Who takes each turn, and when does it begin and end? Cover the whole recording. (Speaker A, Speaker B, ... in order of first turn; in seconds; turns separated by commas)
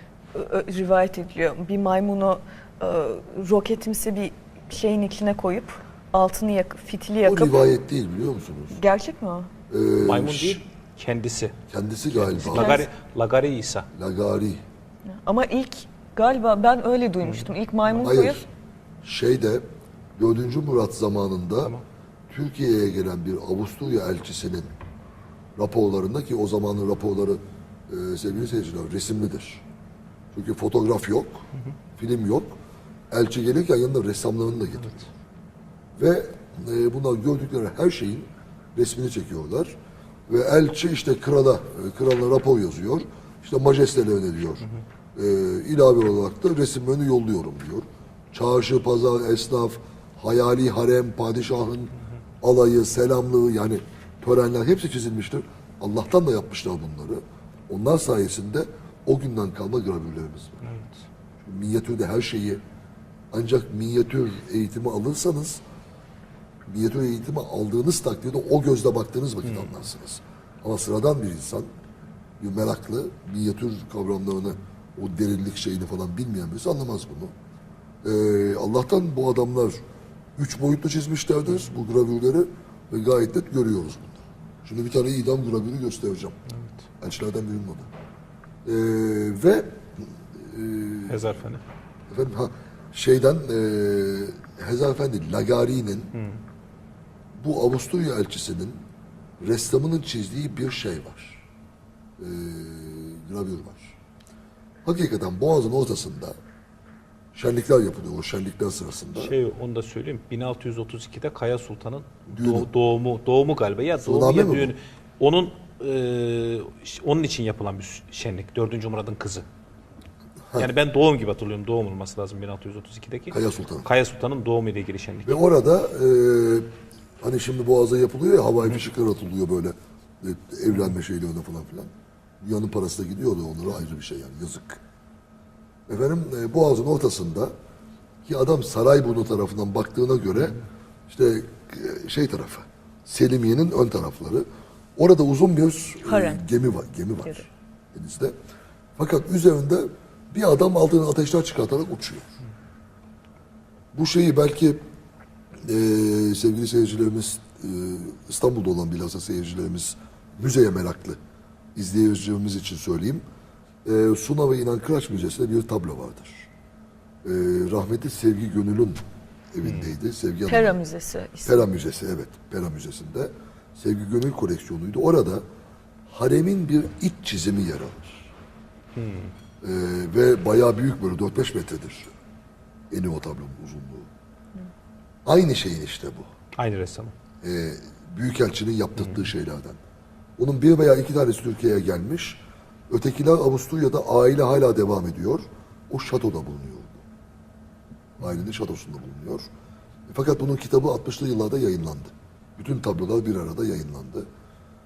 Speaker A: 0.3-7.6, Speaker B: 7.2-8.8, Speaker A: 8.7-9.5, Speaker B: 9.7-10.6, Speaker C: 10.0-11.6, Speaker B: 11.7-12.8, Speaker C: 12.1-13.9, Speaker A: 12.5-12.9, Speaker B: 13.9-14.6, Speaker A: 15.2-18.4, Speaker B: 17.9-18.4, Speaker B: 19.0-19.6, Speaker B: 20.2-21.8, Speaker B: 22.3-24.7, Speaker B: 25.6-29.6, Speaker B: 30.3-31.4, Speaker B: 32.0-32.5, Speaker B: 33.1-35.0, Speaker B: 36.0-39.7, Speaker B: 40.3-60.6, Speaker C: 60.6-61.0, Speaker B: 61.4-62.6, Speaker B: 63.3-65.6, Speaker B: 66.7-71.7, Speaker C: 69.4-69.7, Speaker B: 72.4-77.3, Speaker B: 78.0-79.8, Speaker B: 80.4-86.4, Speaker B: 87.0-87.9, Speaker B: 88.6-89.8, Speaker B: 90.3-91.2, Speaker C: 91.1-91.6, Speaker B: 92.1-96.1, Speaker C: 96.1-96.4, Speaker B: 97.3-98.8, Speaker B: 99.4-101.4, Speaker B: 102.2-104.0, Speaker B: 104.8-106.3, Speaker B: 107.3-109.3, Speaker C: 109.2-119.5, Speaker B: 112.3-112.7, Speaker B: 114.0-114.7, Speaker C: 120.5-125.4, Speaker B: 123.3-123.9, Speaker B: 125.2-126.7, Speaker B: 127.2-131.9, Speaker B: 132.4-134.8, Speaker B: 135.9-137.5, Speaker B: 138.2-140.6, Speaker B: 141.1-148.3, Speaker A: 146.0-146.4, Speaker B: 149.0-152.3, Speaker B: 153.9-154.8, Speaker B: 155.6-161.2, Speaker B: 161.7-163.2, Speaker B: 163.8-166.5, Speaker B: 167.2-169.0, Speaker B: 169.5-170.8, Speaker C: 169.6-169.9, Speaker A: 170.5-171.7, Speaker B: 171.4-175.4, Speaker B: 176.1-178.3, Speaker C: 178.9-179.3, Speaker B: 179.6-182.1, Speaker B: 182.9-184.1, Speaker B: 185.2-186.3, Speaker C: 186.6-187.1, Speaker B: 187.4-189.8, Speaker C: 188.9-189.2, Speaker B: 190.4-197.0, Speaker B: 198.2-199.4, Speaker B: 200.1-204.2